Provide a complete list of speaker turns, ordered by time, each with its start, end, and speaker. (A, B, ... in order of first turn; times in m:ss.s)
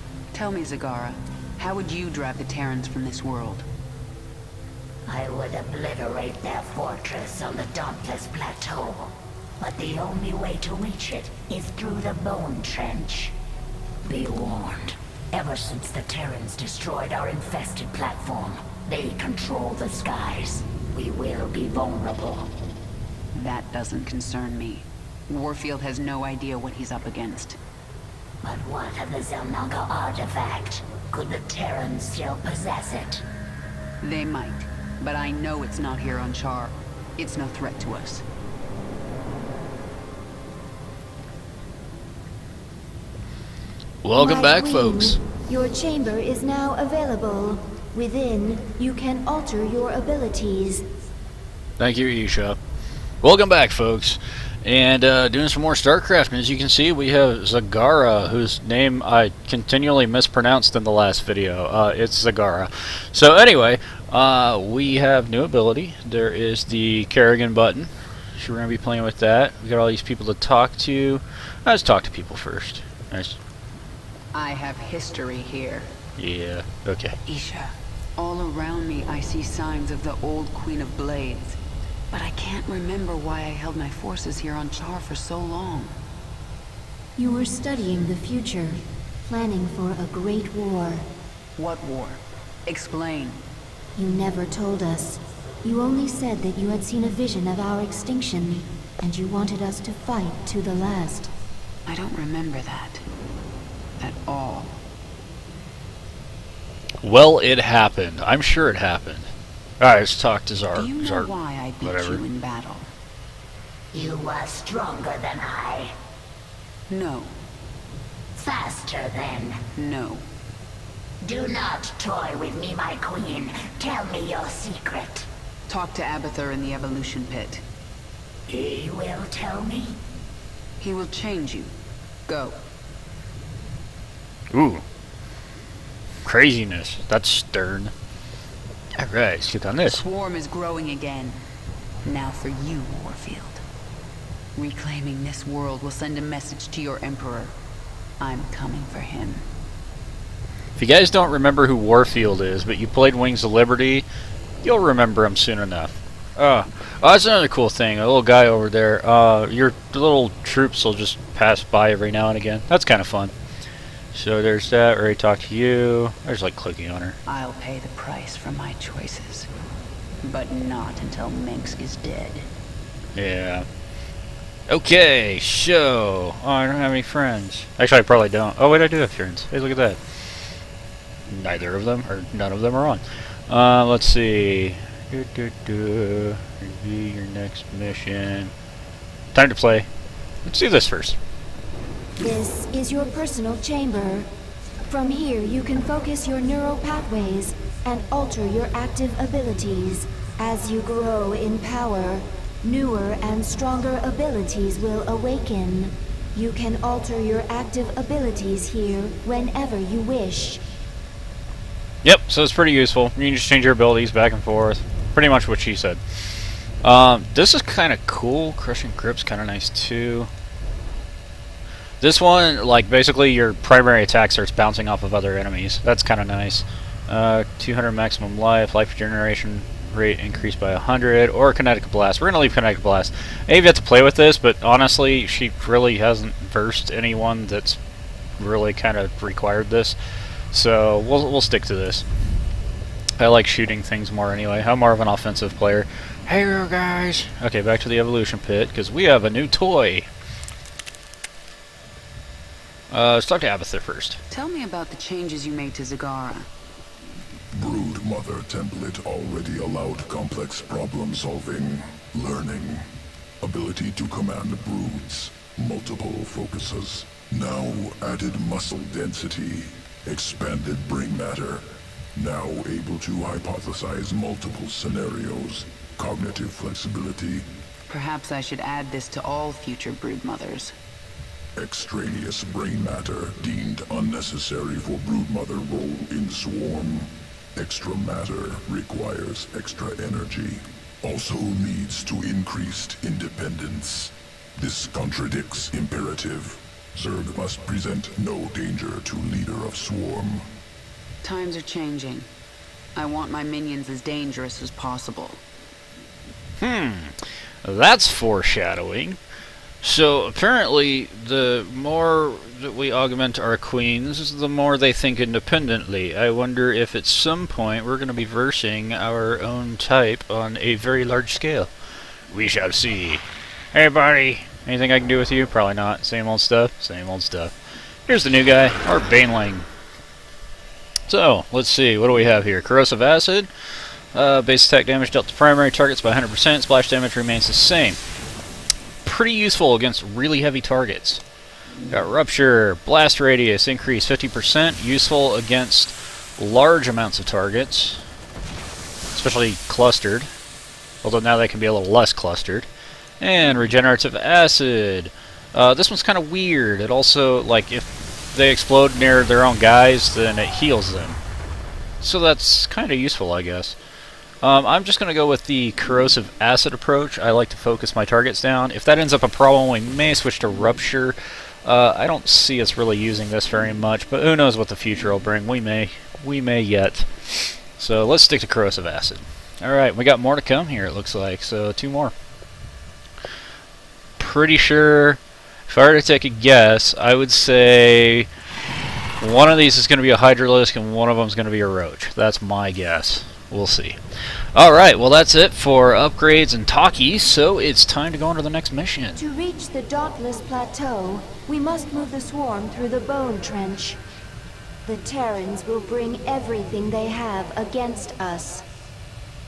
0:00.3-0:03.7 A
0:05.1-0:13.4 B
0:14.0-0:22.5 B
0:23.3-0:27.6 A
0:28.4-0:33.2 B
0:34.0-0:38.2 A
0:44.0-0:45.2 C
0:44.2-0:50.8 D
0:51.8-0:52.6 C
0:53.2-1:13.4 C
1:14.3-1:15.9 A
1:16.2-1:17.2 C
1:17.3-1:21.6 A
1:22.1-1:26.0 A
1:27.2-1:31.0 D
1:31.6-1:33.4 A
1:34.0-1:41.3 D
1:41.9-1:43.0 A
1:44.0-1:44.7 A
1:47.0-1:49.3 C
1:49.8-1:51.3 C
1:50.7-1:52.9 A
1:51.8-1:52.2 C
1:53.9-1:55.9 B
1:56.9-1:57.3 A
1:58.4-1:59.6 B
1:59.8-2:00.2 A
2:01.2-2:05.3 B
2:05.7-2:07.6 A
2:08.5-2:10.0 B
2:10.8-2:11.7 A
2:12.3-2:12.6 A
2:14.5-2:14.8 C
2:16.2-2:17.9 C
2:19.0-2:20.0 C
2:19.8-2:21.4 A
2:22.0-2:23.6 A
2:24.6-2:27.6 A
2:28.2-2:29.4 A
2:30.8-2:34.0 C
2:34.6-2:43.3 C
2:44.1-2:47.2 C
2:47.3-2:49.5 A
2:50.2-2:52.5 A
2:53.2-2:53.7 C
2:54.7-3:00.0 C
3:01.3-3:08.5 C
3:09.3-3:09.9 C
3:10.4-3:11.2 C
3:12.2-3:14.3 D
3:14.9-3:30.6 D
3:32.0-3:36.2 C
3:36.8-3:40.3 C
3:42.0-3:57.8 C
3:58.4-4:00.0 C
4:00.5-4:02.0 C
4:03.2-4:10.1 C
4:12.9-4:14.2 C
4:14.3-4:16.5 A
4:17.6-4:22.8 E
4:23.4-4:37.4 E
4:37.9-4:40.7 A
4:41.6-5:00.4 E
5:01.2-5:02.3 A
5:03.0-5:05.4 A
5:06.6-5:09.2 C
5:09.8-5:21.7 C
5:22.3-5:27.5 C
5:28.1-5:29.7 C
5:31.1-5:33.5 C
5:34.1-5:38.0 C
5:39.0-5:41.2 C
5:41.9-5:48.0 C
5:49.1-5:50.3 C
5:51.0-5:52.7 C
5:53.2-6:01.2 C
6:02.0-6:03.8 C
6:04.4-6:22.1 C
6:24.2-6:28.3 C
6:29.2-6:34.0 C
6:34.6-6:39.2 C
6:39.2-6:44.0 D
6:44.8-6:48.6 D